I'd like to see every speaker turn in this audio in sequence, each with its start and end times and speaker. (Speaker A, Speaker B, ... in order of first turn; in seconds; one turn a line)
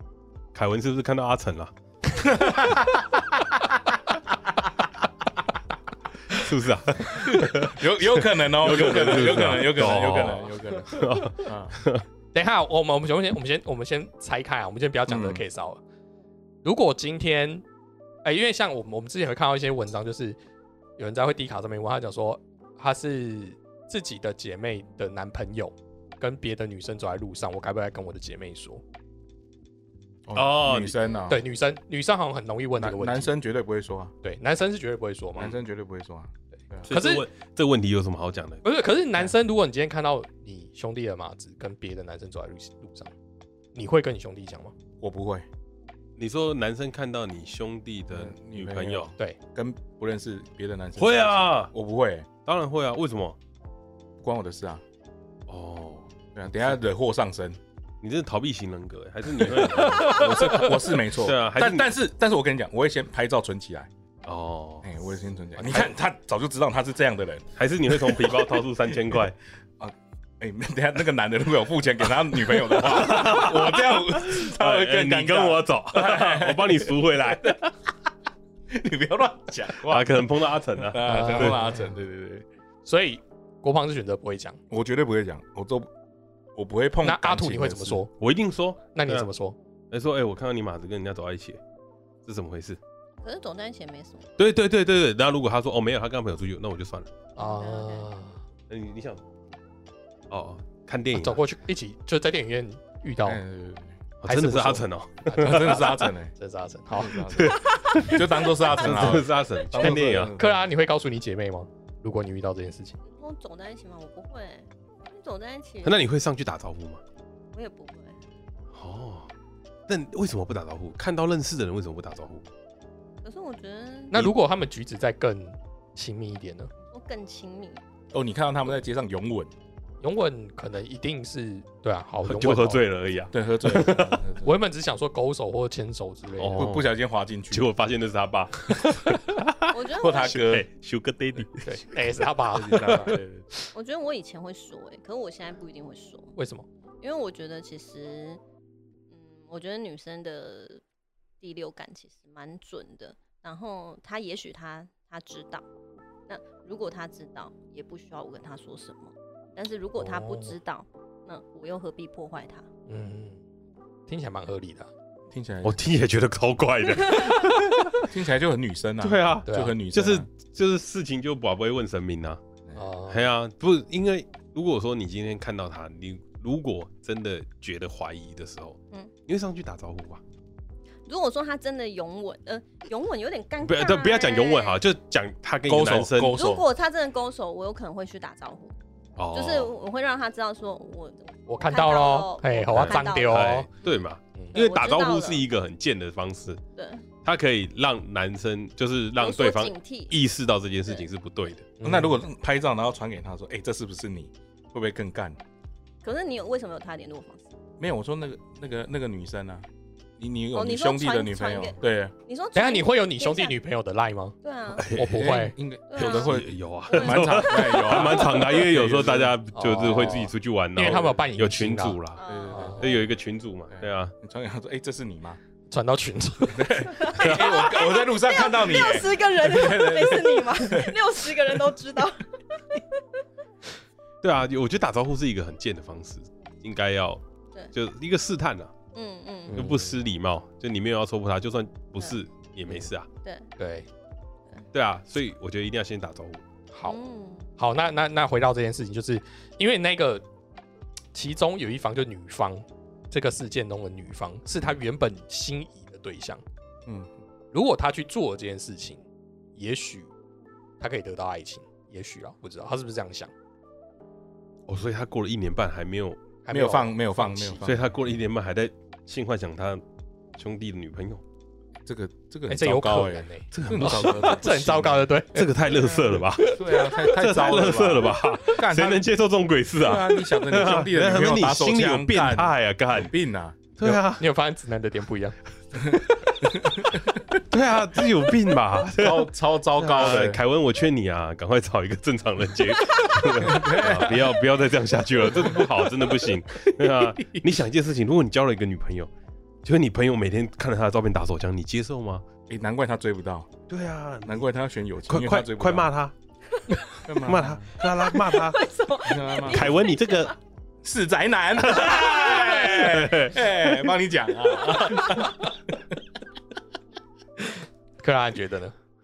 Speaker A: 0.5-1.7
Speaker B: 2.2-3.3
Speaker A: 6.3-12.0
Speaker B: 7.2-11.8
Speaker C: 12.3-15.8
Speaker B: 15.1-15.4
Speaker C: 16.6-17.6
Speaker C: 18.2-20.4
Speaker C: 21.0-28.8
Speaker B: 30.3-31.4
Speaker A: 30.3-31.2
Speaker C: 31.3-33.4
Speaker B: 32.8-34.1
Speaker C: 34.2-35.6
Speaker B: 35.4-36.9
Speaker A: 36.8-38.6
Speaker C: 36.9-37.3
Speaker C: 38.6-43.1
Speaker C: 43.7-44.7
Speaker B: 45.0-45.5
Speaker A: 46.2-49.1
Speaker B: 48.1-52.3
Speaker A: 51.0-51.7
Speaker A: 52.4-53.4
Speaker B: 54.2-54.8
Speaker A: 55.5-56.0
Speaker B: 56.3-57.6
Speaker A: 58.0-61.9
Speaker B: 59.5-63.9
Speaker C: 59.8-60.5
Speaker A: 64.2-64.9
Speaker B: 64.8-69.2
Speaker A: 67.6-69.4
Speaker B: 69.8-77.6
Speaker A: 72.5-77.7
Speaker B: 78.7-82.5
Speaker A: 79.8-81.6
Speaker C: 81.0-81.9
Speaker C: 82.8-84.6
Speaker B: 84.7-85.9
Speaker B: 86.5-88.0
Speaker C: 87.0-88.1
Speaker A: 88.2-89.3
Speaker C: 88.9-89.5
Speaker A: 89.9-91.6
Speaker A: 92.2-92.8
Speaker D: 93.2-94.3
Speaker A: 94.4-97.1
Speaker C: 97.3-98.4
Speaker D: 97.4-98.1
Speaker A: 98.7-99.2
Speaker A: 100.3-101.4
Speaker C: 101.1-103.4
Speaker B: 103.2-104.0
Speaker A: 104.2-106.1
Speaker C: 104.2-107.2
Speaker B: 105.4-106.3
Speaker B: 106.9-110.6
Speaker A: 107.2-110.3
Speaker D: 107.5-109.6
Speaker C: 110.4-113.0
Speaker D: 113.0-116.0
Speaker A: 115.8-117.0
Speaker D: 117.5-118.2
Speaker A: 118.7-119.3
Speaker A: 119.9-122.5
Speaker D: 123.2-124.2
Speaker C: 124.1-126.7
Speaker D: 126.9-127.8
Speaker B: 128.1-129.5
Speaker C: 130.0-132.8
Speaker A: 132.2-134.2
Speaker B: 133.3-134.5
Speaker C: 134.4-136.8
Speaker A: 136.4-136.9
Speaker B: 136.6-137.7
Speaker A: 137.5-141.8
Speaker D: 139.7-140.4
Speaker B: 140.0-140.7
Speaker C: 141.6-143.2
Speaker B: 142.5-143.5
Speaker D: 143.7-146.3
Speaker C: 146.3-146.6
Speaker D: 147.0-148.4
Speaker D: 149.1-150.8
Speaker D: 151.4-155.6
Speaker D: 156.3-162.7
Speaker C: 160.0-160.5
Speaker C: 162.9-163.4
Speaker C: 164.1-164.9
Speaker B: 165.3-165.8
Speaker A: 165.6-168.1
Speaker D: 167.0-167.5
Speaker B: 168.0-170.3
Speaker A: 169.0-172.4
Speaker C: 169.5-169.7
Speaker C: 172.7-173.2
Speaker A: 173.1-180.2
Speaker D: 181.0-184.8
Speaker A: 183.6-186.4
Speaker B: 185.7-186.6
Speaker D: 186.3-188.7
Speaker A: 189.2-189.7
Speaker D: 189.3-193.5
Speaker C: 191.5-193.7
Speaker A: 192.7-196.6
Speaker D: 194.5-195.4
Speaker D: 196.8-197.0
Speaker A: 197.2-201.7
Speaker D: 199.2-200.2
Speaker C: 201.8-202.2
Speaker B: 201.8-205.4
Speaker D: 206.0-207.4
Speaker B: 207.8-209.7
Speaker B: 210.2-212.1
Speaker D: 210.5-213.6
Speaker C: 212.5-214.3
Speaker D: 214.4-214.9
Speaker A: 214.7-215.4
Speaker C: 214.9-215.6
Speaker B: 215.0-220.2
Speaker D: 215.9-216.3
Speaker A: 216.0-222.2
Speaker D: 216.9-218.6
Speaker C: 219.5-222.0
Speaker D: 222.1-222.9
Speaker B: 222.2-223.1
Speaker C: 222.5-222.8
Speaker A: 222.8-224.1
Speaker B: 223.7-225.4
Speaker C: 225.7-226.8
Speaker B: 226.5-231.0
Speaker D: 226.9-233.0
Speaker A: 227.1-227.6
Speaker A: 234.2-237.2
Speaker A: 237.7-238.7
Speaker D: 238.9-239.7
Speaker C: 239.5-240.0
Speaker A: 239.5-243.1
Speaker D: 243.2-243.5
Speaker C: 243.6-243.9
Speaker A: 244.7-246.4
Speaker C: 246.7-247.0
Speaker D: 246.8-247.5
Speaker C: 247.6-250.2
Speaker C: 251.1-256.4
Speaker B: 256.9-257.1
Speaker C: 257.5-259.0
Speaker C: 259.6-260.1
Speaker C: 260.8-263.3
Speaker A: 264.7-266.2
Speaker C: 266.4-267.6
Speaker B: 266.5-268.0
Speaker A: 267.6-269.8
Speaker A: 270.4-271.2
Speaker B: 271.9-275.1
Speaker C: 272.5-275.5
Speaker A: 273.5-274.4
Speaker A: 275.3-283.1
Speaker C: 276.2-277.1
Speaker B: 276.4-279.1
Speaker B: 279.8-283.6
Speaker A: 283.8-284.2
Speaker C: 283.8-285.4
Speaker B: 286.5-286.9
Speaker A: 287.4-299.1
Speaker B: 288.9-290.4
Speaker B: 293.3-294.4
Speaker B: 295.3-295.7
Speaker A: 299.6-302.2
Speaker B: 302.5-303.6
Speaker A: 303.7-304.4
Speaker B: 304.2-305.9
Speaker A: 305.1-306.1
Speaker B: 307.0-307.7
Speaker A: 307.2-308.6
Speaker D: 307.8-310.4
Speaker B: 309.0-309.7
Speaker A: 309.4-310.3
Speaker B: 310.8-315.8
Speaker A: 311.6-313.5
Speaker D: 311.7-312.9
Speaker D: 314.7-315.1
Speaker C: 317.4-318.7